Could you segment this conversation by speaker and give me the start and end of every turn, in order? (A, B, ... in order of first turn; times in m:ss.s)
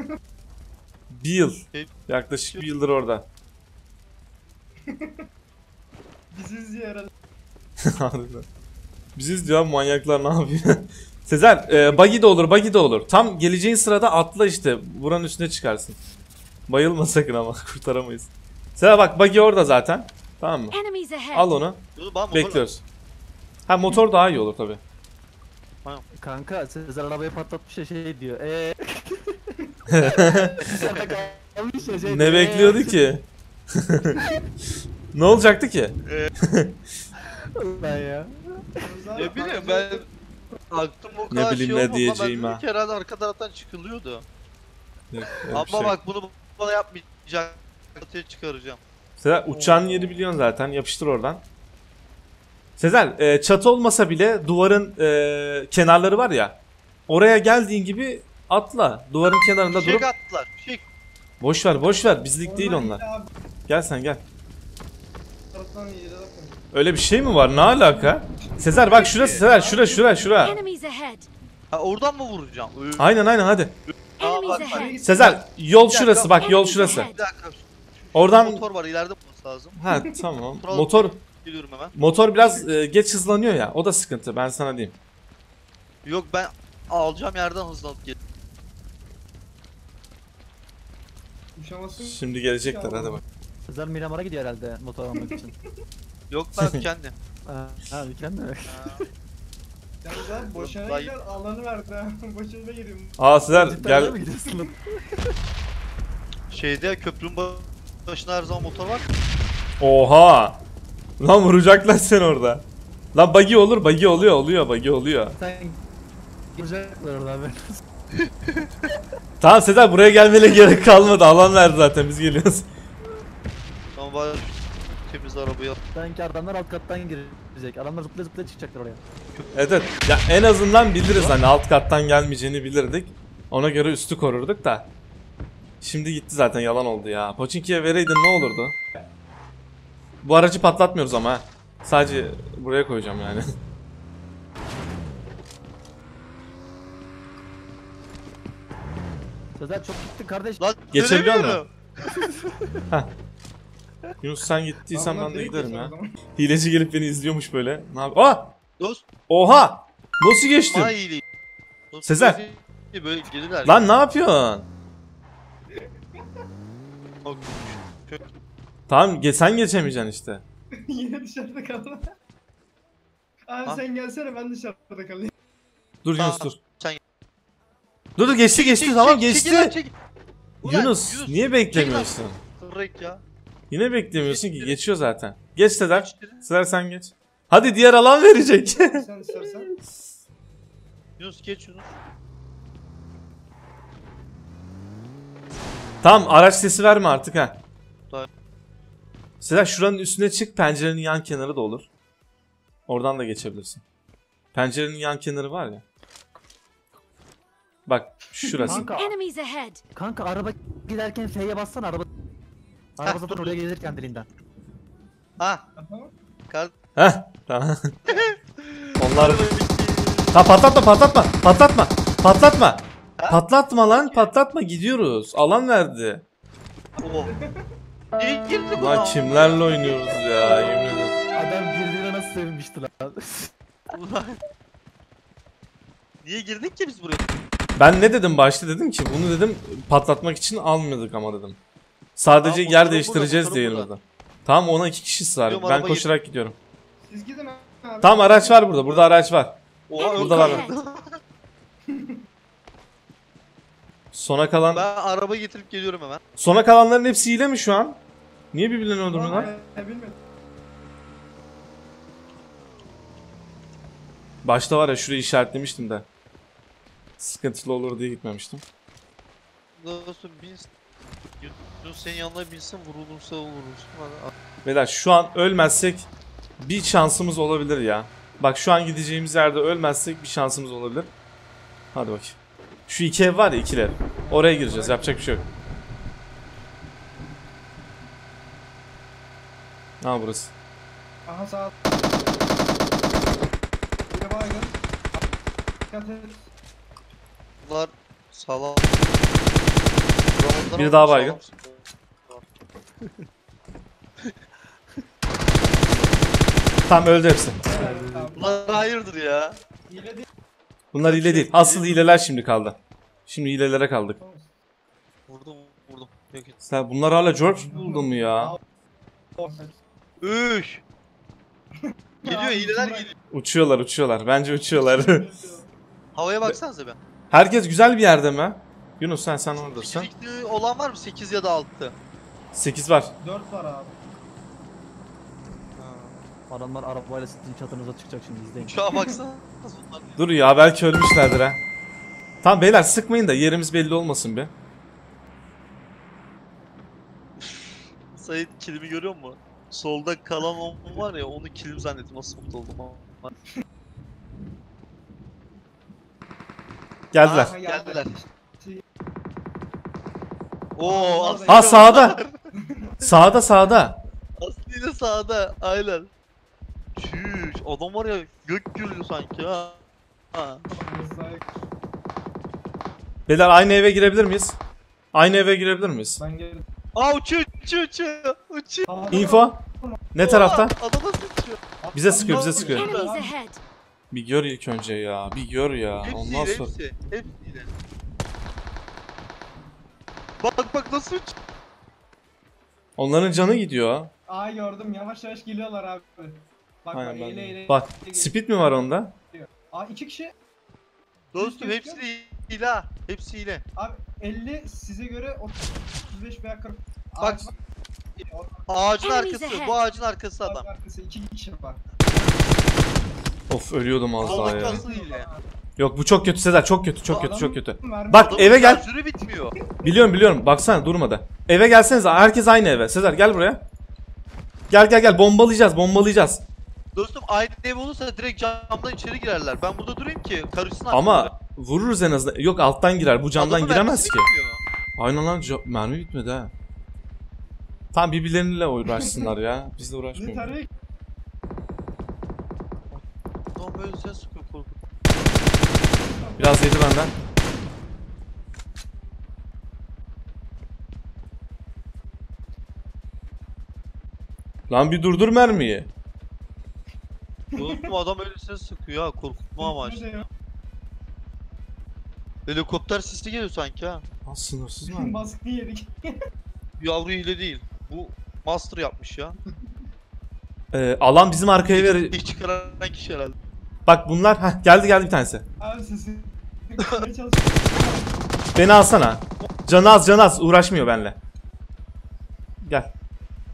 0:01.1-0:03.3 A
0:01.7-0:02.0 B
0:04.8-0:05.2 C
0:06.3-0:07.1 C
0:07.8-0:08.4 A
0:09.2-0:16.0 A
0:11.7-0:12.0 C
0:16.7-0:20.8 A
0:20.7-0:21.5 D
0:21.3-0:22.8 A
0:22.0-0:22.6 B
0:23.7-0:24.8 A
0:26.2-0:29.4 E
0:29.9-0:30.6 A
0:30.0-0:33.0 E
0:30.6-0:31.0 B
0:32.0-0:34.2 A
0:35.1-0:36.8 A
0:36.1-0:36.3 B
0:37.5-0:38.7 E
0:38.8-0:40.1 C
0:39.2-0:40.0 B
0:40.7-0:44.2 B
0:41.3-0:42.6 A
0:45.1-0:46.0 A
0:45.5-0:48.8 B
0:49.2-0:51.4 A
0:49.5-0:50.2 C
0:52.8-0:56.6 A
0:57.1-1:00.1 A
0:59.7-1:00.8 B
1:01.4-1:03.0 A
1:02.4-1:03.3 C
1:03.7-1:04.2 A
1:05.5-1:06.6 C
1:06.7-1:10.6 A
1:08.0-1:10.2 C
1:08.9-1:09.4 B
1:10.4-1:11.3 D
1:11.7-1:13.1 B
1:13.0-1:13.8 A
1:14.2-1:14.9 D
1:14.2-1:15.0 B
1:14.5-1:15.4 C
1:15.0-1:17.1 A
1:15.9-1:19.8 B
1:16.4-1:17.2 D
1:18.1-1:18.6 A
1:19.8-1:21.2 A
1:19.9-1:20.2 C
1:20.6-1:21.9 B
1:21.9-1:25.0 A
1:26.0-1:28.2 B
1:31.6-1:33.2 C
1:32.0-1:33.2 A
1:33.7-1:35.5 E
1:35.2-1:35.5 C
1:36.3-1:37.1 B
1:36.6-1:36.8 A
1:37.4-1:39.0 E
1:38.7-1:39.0 B
1:40.0-1:43.3 C
1:40.6-1:41.1 B
1:43.2-1:44.2 A
1:43.5-1:45.3 E
1:46.5-1:49.1 B
1:49.8-1:50.6 A
1:51.2-1:55.4 A
1:55.3-1:55.8 E
1:56.5-1:57.8 E
1:58.2-1:58.7 B
1:59.4-2:02.7 A
2:03.9-2:05.8 B
2:05.9-2:09.0 E
2:09.5-2:14.9 A
2:11.1-2:11.4 B
2:15.8-2:18.8 A
2:20.2-2:23.5 A
2:29.6-2:30.6 E
2:30.6-2:32.3 B
2:30.9-2:31.6 A
2:34.2-2:38.5 A
2:34.9-2:36.2 C
2:38.8-2:39.0 B
2:39.3-2:40.9 A
2:40.7-2:41.2 B
2:41.9-2:43.8 B
2:42.0-2:42.4 A
2:43.6-2:44.7 A
2:45.8-2:46.2 C
2:47.2-2:48.2 B
2:48.9-2:50.4 A
2:50.8-2:52.1 C
2:53.5-2:55.3 C
2:56.0-2:56.6 A
2:56.2-2:57.0 B
2:58.2-2:59.7 A
2:58.5-2:59.9 B
3:00.6-3:03.2 B
3:00.6-3:02.4 A
3:03.7-3:09.0 A
3:04.3-3:04.8 B
3:05.9-3:06.4 B
3:08.8-3:09.7 C
3:11.2-3:12.0 B
3:16.0-3:17.6 A
3:19.4-3:21.9 A
3:22.9-3:23.8 A
3:24.5-3:25.8 A
3:27.9-3:28.9 A
3:28.4-3:28.9 C
3:28.7-3:29.1 E
3:28.9-3:29.8 D
3:29.9-3:32.1 E
3:33.0-3:34.3 E
3:33.0-3:33.6 B
3:35.4-3:35.6 B
3:35.8-3:36.1 C
3:37.0-3:37.9 A
3:38.0-3:40.4 B
3:39.0-3:39.4 A
3:40.3-3:46.2 A
3:43.9-3:44.3 B
3:47.0-3:47.3 B
3:47.2-3:47.6 C
3:48.2-3:49.9 B
3:48.8-3:51.2 A
3:51.3-3:53.5 E
3:53.9-3:54.4 B
3:56.2-3:57.3 B
3:57.8-4:01.6 A
4:02.2-4:06.6 A
4:02.4-4:03.9 B
4:05.4-4:06.1 B
4:07.0-4:09.0 C
4:08.0-4:09.6 A
4:09.9-4:11.2 B
4:10.0-4:10.8 D
4:10.2-4:10.6 A
4:11.9-4:12.2 C
4:14.1-4:14.8 A
4:14.7-4:16.2 B
4:16.4-4:18.0 A
4:18.5-4:19.5 A
4:19.1-4:20.2 C
4:24.4-4:26.1 A
4:27.2-4:28.6 A
4:29.8-4:30.7 B
4:31.4-4:34.3 B
4:34.6-4:36.1 A
4:36.6-4:41.1 A
4:41.9-4:45.4 A
4:44.2-4:45.2 C
4:50.0-4:50.5 A
4:51.3-4:51.7 C
4:54.1-4:55.2 C
4:55.9-4:56.5 C
4:57.6-4:59.2 B
5:00.3-5:02.4 B
5:00.8-5:01.4 A
5:06.9-5:07.6 A
5:07.6-5:08.8 C
5:07.7-5:08.3 E
5:08.4-5:09.6 B
5:09.9-5:10.3 C
5:10.9-5:14.2 A
5:11.0-5:12.0 B
5:14.2-5:14.5 C
5:15.3-5:16.6 B
5:16.6-5:18.6 A
5:17.4-5:18.6 C
5:19.4-5:19.8 C
5:20.2-5:20.8 B
5:21.8-5:23.1 C
5:22.2-5:23.1 B
5:23.3-5:25.2 A
5:24.7-5:25.7 C
5:26.1-5:27.0 B
5:27.3-5:30.1 A
5:29.6-5:31.9 B
5:32.5-5:33.1 A
5:33.2-5:34.0 C
5:35.8-5:36.2 B
5:36.5-5:38.8 E
5:38.6-5:40.2 B
5:38.9-5:39.2 C
5:40.2-5:41.6 A
5:42.4-5:44.5 A
5:47.4-5:53.3 B
5:57.1-5:57.5 A
5:57.2-5:58.1 B
5:57.3-5:58.8 C
6:00.8-6:02.4 B
6:00.8-6:02.9 C
6:01.5-6:02.2 A
6:03.0-6:04.0 A
6:04.4-6:06.1 B
6:07.0-6:09.8 B
6:10.3-6:10.6 B
6:10.7-6:11.4 C
6:13.3-6:14.6 A
6:15.1-6:16.2 A
6:16.2-6:16.6 C
6:16.9-6:19.1 B
6:18.8-6:20.0 C
6:19.1-6:20.7 A
6:20.2-6:21.6 B
6:21.8-6:23.3 C
6:21.9-6:22.9 A
6:22.3-6:23.2 B
6:22.7-6:23.6 D
6:24.1-6:26.7 A
6:26.0-6:27.7 B
6:30.4-6:31.3 B
6:33.0-6:34.1 A
6:34.3-6:38.3 C
6:36.9-6:39.2 A
6:39.3-6:40.3 C
6:41.3-6:43.6 B
6:41.4-6:42.0 C
6:43.8-6:47.5 C
6:47.2-6:47.5 B
6:48.2-6:48.7 C
6:48.7-6:50.6 B
6:49.0-6:49.8 D
6:50.4-6:51.8 C
6:53.5-6:54.8 A
6:54.2-6:55.4 C
6:54.2-6:55.3 B
6:55.8-6:58.8 A
6:57.1-6:58.8 C
6:58.2-6:59.5 B
6:59.8-7:03.6 A
7:04.7-7:06.4 A
7:06.9-7:11.3 B
7:10.9-7:14.3 A
7:13.4-7:14.6 B
7:15.0-7:16.5 A
7:17.9-7:20.5 A
7:19.0-7:19.3 C
7:20.1-7:20.7 C
7:23.6-7:24.8 B
7:26.0-7:26.8 C
7:26.4-7:27.1 A
7:34.7-7:35.9 A
7:37.5-7:38.0 C
7:37.6-7:40.0 B
7:39.6-7:40.3 C
7:42.5-7:44.0 B
7:44.2-7:45.2 A
7:44.9-7:46.2 C
7:46.8-7:49.4 B
7:50.7-7:52.2 A
7:51.7-7:53.4 B
7:53.8-7:55.4 A
7:55.6-7:58.1 C
7:58.6-8:01.2 A
8:02.6-8:02.9 A